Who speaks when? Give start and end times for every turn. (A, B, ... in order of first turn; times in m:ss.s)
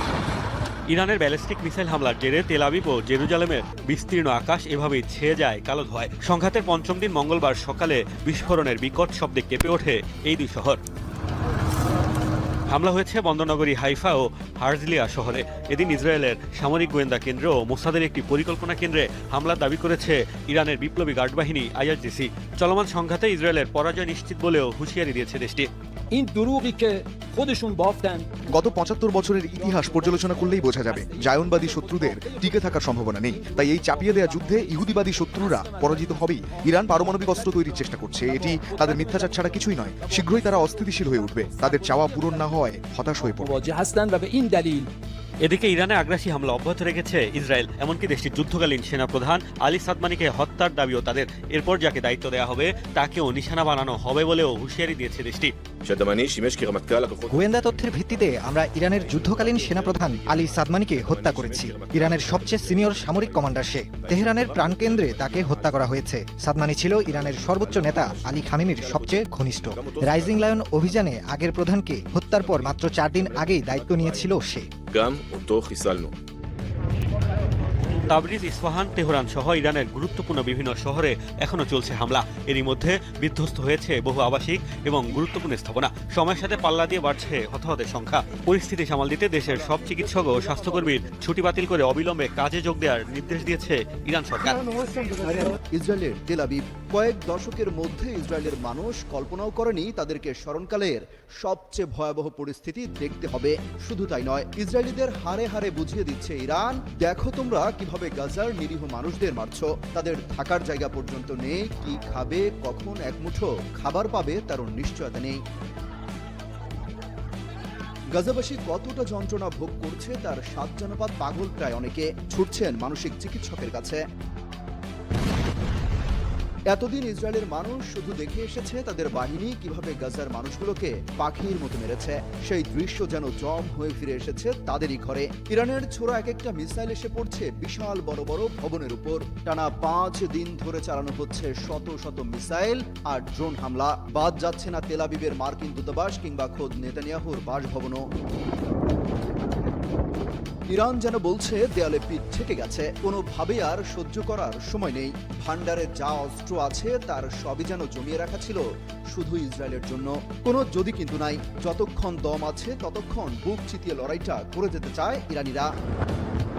0:00.9-0:10.8 A
0:12.7-0:25.7 A
0:26.1-0:28.3 B
0:28.5-0:43.5 C
0:29.4-0:44.9 B
0:45.4-0:55.5 A
0:55.8-1:06.0 D
0:57.3-1:14.7 E
1:06.9-1:11.0 D
1:12.3-1:16.1 D
1:18.1-1:34.7 A
1:35.7-1:55.4 F
1:58.1-2:04.0 F
2:06.7-2:28.0 F
2:30.7-2:45.7 F